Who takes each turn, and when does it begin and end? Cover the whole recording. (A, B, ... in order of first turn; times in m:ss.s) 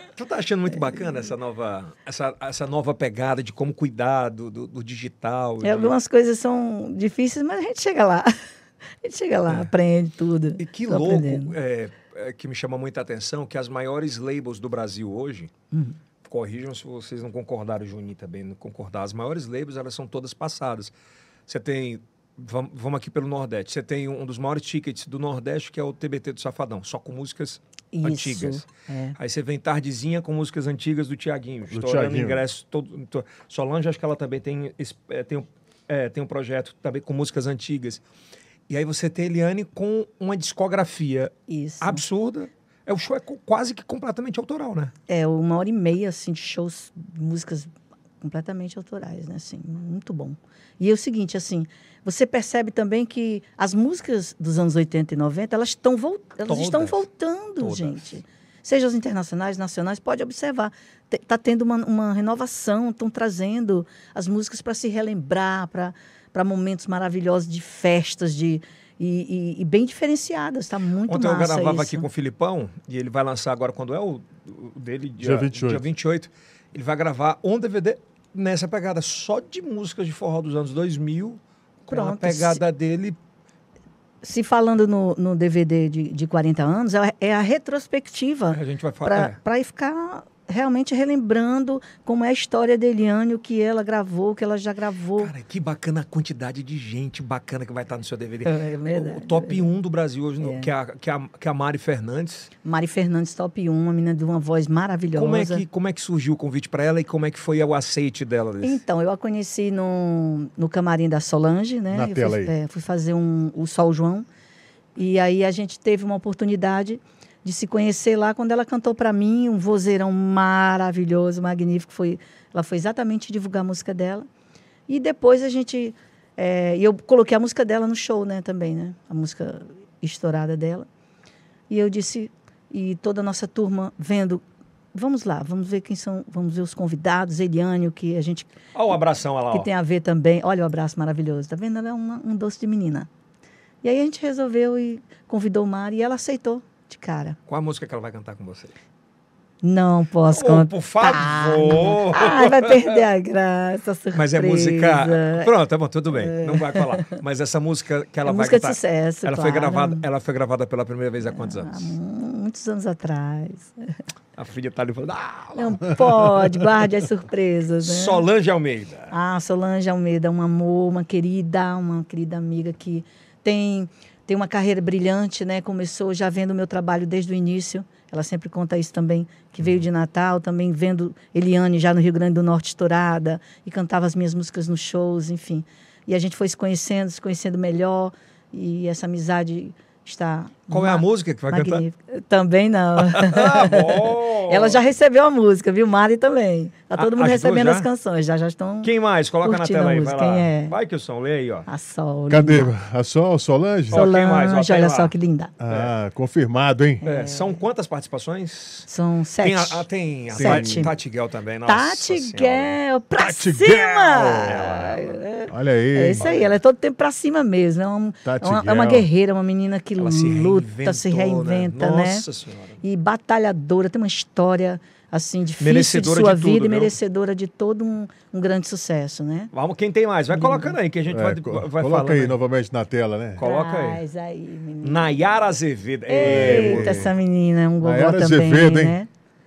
0:00.2-0:05.9 A
0:05.6-0:08.3 B
0:09.0-0:11.5 B
0:10.6-0:15.5 A
0:15.7-0:16.0 B
0:16.2-0:20.9 A
0:21.5-0:38.0 A
0:27.9-0:29.2 B
0:31.7-0:32.4 C
0:38.7-0:44.9 A
0:41.5-0:42.0 B
0:45.1-0:47.7 B
0:48.2-1:12.1 B
0:56.5-0:57.0 A
0:57.6-0:58.0 A
1:11.1-1:23.2 A
1:15.2-1:15.8 C
1:21.9-1:22.6 B
1:24.2-1:35.3 B
1:28.5-1:29.4 A
1:35.2-1:42.5 A
1:38.4-1:39.7 B
1:40.4-1:40.7 B
1:42.6-1:45.6 B
1:45.2-1:48.8 A
1:48.6-1:54.3 B
1:51.9-1:52.5 C
1:55.0-2:04.3 B
2:04.9-2:10.9 B
2:11.7-2:14.4 B
2:14.9-2:19.0 B
2:18.7-2:19.7 A
2:19.5-2:23.1 B
2:23.8-2:27.4 B
2:27.5-2:28.7 A
2:29.6-2:35.5 B
2:30.3-2:33.0 A
2:34.1-2:41.9 A
2:36.1-2:37.2 B
2:38.3-2:40.1 B
2:41.2-2:44.0 B
2:44.4-2:46.2 A
2:45.6-2:48.2 B
2:47.8-2:49.1 A
2:49.1-3:18.9 B
3:10.7-3:11.8 A
3:13.0-3:14.8 A
3:17.0-3:17.9 A
3:18.8-3:21.7 A
3:19.4-3:20.7 B
3:21.7-3:22.7 B
3:22.3-3:24.1 C
3:23.9-3:25.1 A
3:23.9-3:25.5 B
3:25.6-3:27.0 C
3:27.0-3:27.6 B
3:27.0-3:28.9 A
3:28.9-3:30.9 B
3:29.4-3:32.8 A
3:30.4-3:30.9 C
3:31.7-3:42.3 B
3:33.2-3:36.4 C
3:34.4-3:35.0 A
3:36.2-3:36.5 A
3:38.2-3:39.1 C
3:40.0-3:42.8 A
3:42.8-3:49.5 B
3:45.6-3:47.0 A
3:49.5-3:52.4 A
3:50.3-3:50.7 B
3:51.1-3:53.4 C
3:53.4-3:54.0 A
3:53.4-3:55.3 B
3:54.8-3:57.1 A
3:56.1-3:59.1 B
3:56.2-3:57.1 C
3:57.8-3:59.0 C